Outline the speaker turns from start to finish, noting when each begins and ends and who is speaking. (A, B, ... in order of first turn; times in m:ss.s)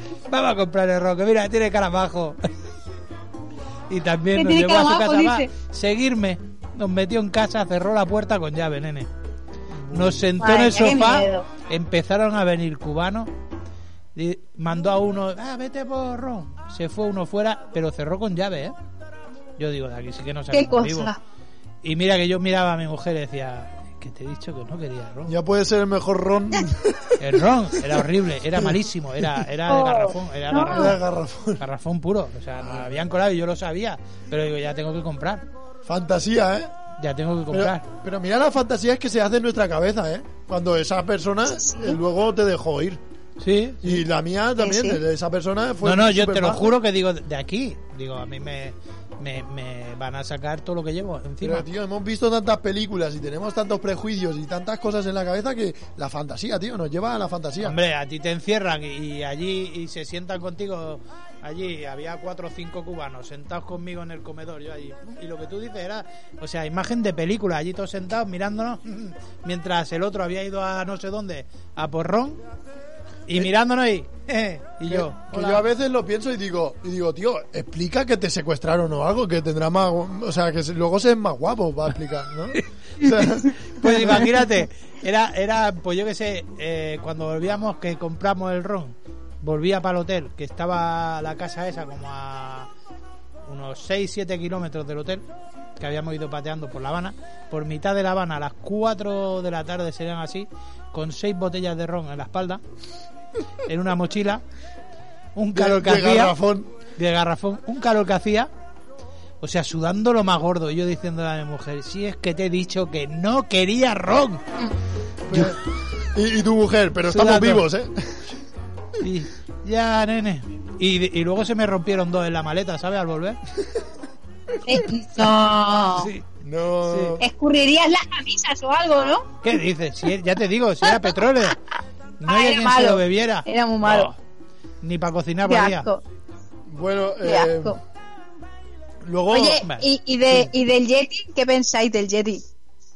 0:00.3-0:02.4 A
0:03.9-0:09.1 A
0:04.3-0:05.5 B
0:09.7-0:10.3 C
0:09.9-0:13.3 A
0:10.4-0:11.5 B
0:14.2-0:18.8 A
0:19.6-0:21.1 A
0:20.5-0:21.2 B
0:21.8-0:25.4 A
0:25.2-0:28.0 C
0:27.2-0:31.0 A
0:28.6-0:29.3 C
0:29.7-0:30.9 B
0:30.6-0:31.6 C
0:31.6-0:35.4 A
0:32.6-0:33.1 C
0:35.8-0:36.7 C
0:37.0-0:37.8 A
0:37.5-0:43.0 C
0:41.5-0:42.0 B
0:43.4-0:44.0 A
0:43.8-0:46.8 C
0:44.6-0:45.0 B
0:45.8-0:51.7 A
0:51.4-0:57.8 C
0:57.6-1:12.4 A
1:13.3-1:15.6 A
1:14.9-1:24.4 C
1:23.7-1:32.7 A
1:33.5-1:35.2 A
1:35.8-1:42.6 A
1:43.7-1:44.4 A
1:45.4-1:46.4 A
1:45.5-1:46.7 C
1:47.0-1:48.5 A
1:49.4-1:54.4 A
1:55.3-1:58.4 C
1:57.1-1:57.6 A
1:59.0-2:03.4 A
2:04.7-2:06.1 B
2:06.0-2:06.2 A
2:06.4-2:07.3 C
2:06.8-2:07.2 A
2:07.2-2:09.3 B
2:09.4-2:11.6 A
2:12.2-2:14.2 A
2:12.3-2:14.1 B
2:14.8-2:15.9 A
2:15.5-2:16.0 B
2:16.7-2:17.8 C
2:17.2-2:17.8 B
2:19.0-2:19.6 C
2:19.3-2:22.4 B